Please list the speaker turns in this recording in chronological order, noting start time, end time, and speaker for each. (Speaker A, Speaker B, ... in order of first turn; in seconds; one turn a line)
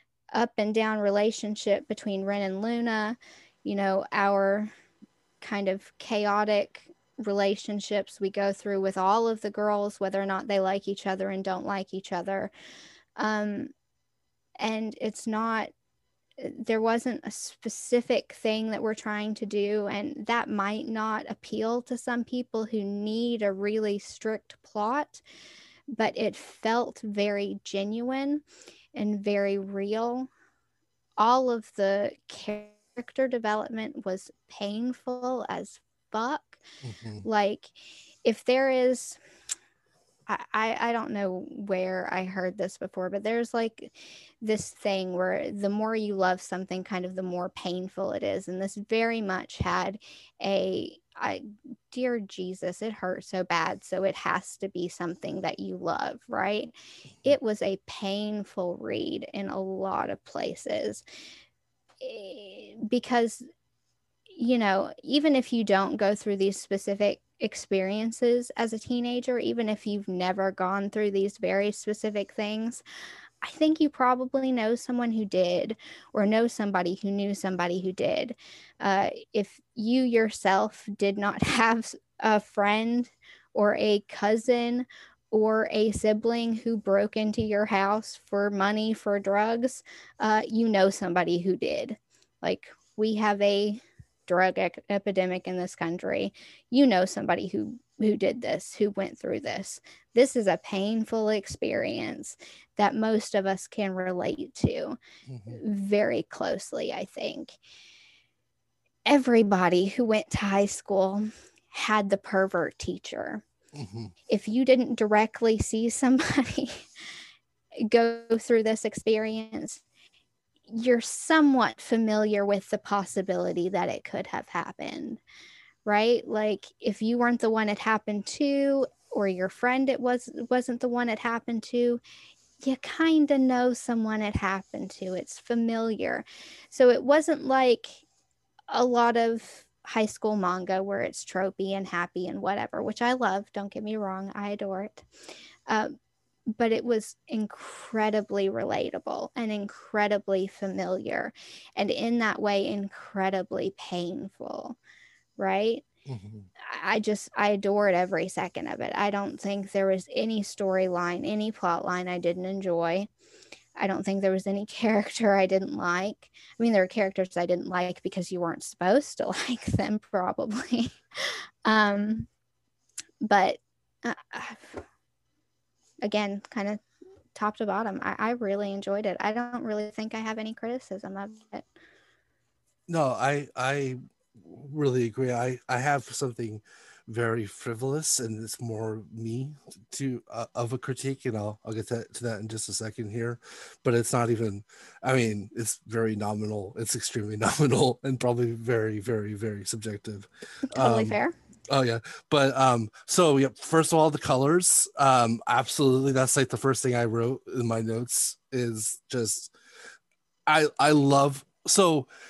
Speaker A: 0.3-4.7
Speaker A: 5.4-12.5
Speaker A: 13.2-13.7
Speaker A: 14.6-15.7
Speaker A: 16.4-25.2
Speaker A: 25.9-28.4
Speaker A: 28.9-30.3
Speaker A: 31.2-36.6
Speaker B: 36.8-37.2
Speaker A: 37.2-39.2
Speaker A: 40.3-61.0
Speaker A: 62.0-63.4
Speaker A: 64.3-72.8
Speaker A: 73.4-105.0
Speaker B: 105.3-105.6
Speaker A: 105.5-107.6
Speaker A: 109.0-113.4
Speaker B: 113.7-114.1
Speaker A: 114.3-116.9
Speaker A: 117.8-119.8
Speaker A: 120.7-125.2
Speaker A: 125.8-132.0
Speaker A: 132.6-138.0
Speaker A: 138.7-145.0
Speaker A: 145.7-145.9
Speaker A: 146.5-154.8
Speaker A: 155.4-155.8
Speaker B: 156.1-156.5
Speaker A: 156.6-163.1
Speaker A: 163.8-172.3
Speaker A: 173.2-174.8
Speaker A: 176.0-176.8
Speaker A: 177.3-181.7
Speaker B: 182.9-201.2
Speaker A: 200.7-201.3
Speaker B: 201.7-209.5
Speaker B: 210.5-212.1